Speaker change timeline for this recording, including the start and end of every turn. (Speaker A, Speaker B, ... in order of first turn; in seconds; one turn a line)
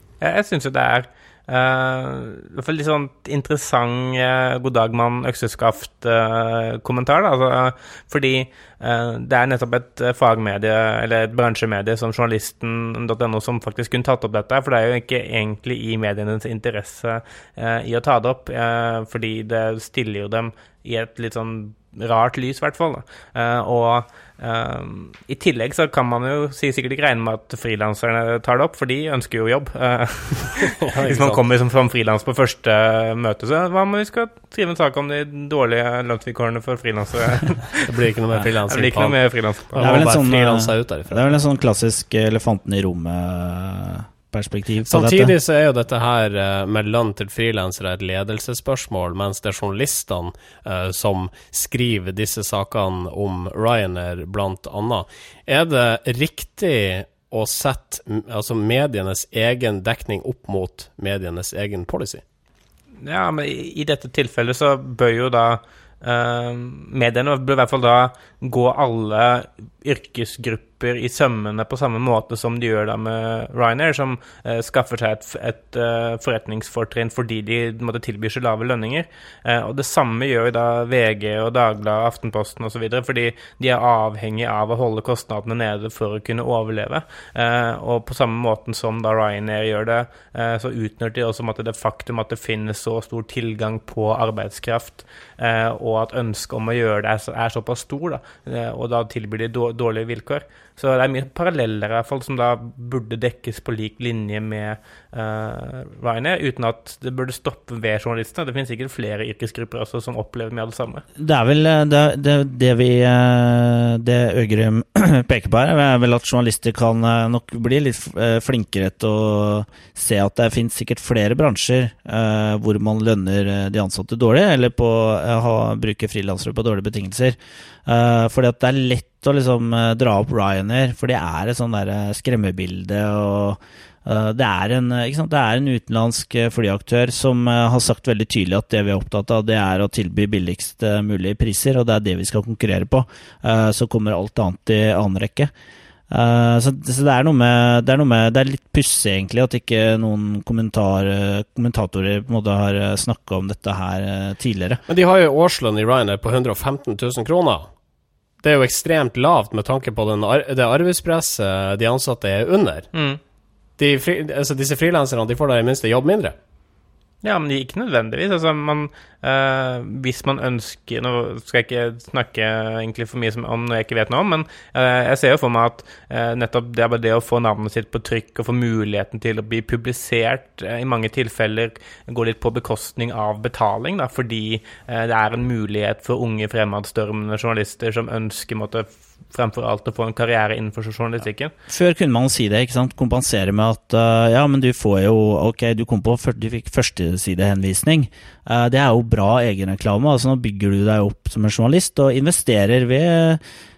Speaker A: 0.2-37.9
Speaker B: 30.8-31.4
Speaker B: 37.9-39.2
Speaker A: 38.7-40.1
Speaker B: 39.7-41.3
Speaker C: 39.8-45.3
Speaker B: 44.9-62.2
Speaker A: 63.0-111.0
Speaker C: 111.2-145.5
Speaker C: 146.1-154.8
Speaker B: 154.9-157.7
Speaker B: 158.4-162.9
Speaker A: 162.9-163.2
Speaker B: 163.8-166.3
Speaker A: 167.2-191.5
Speaker C: 191.7-203.4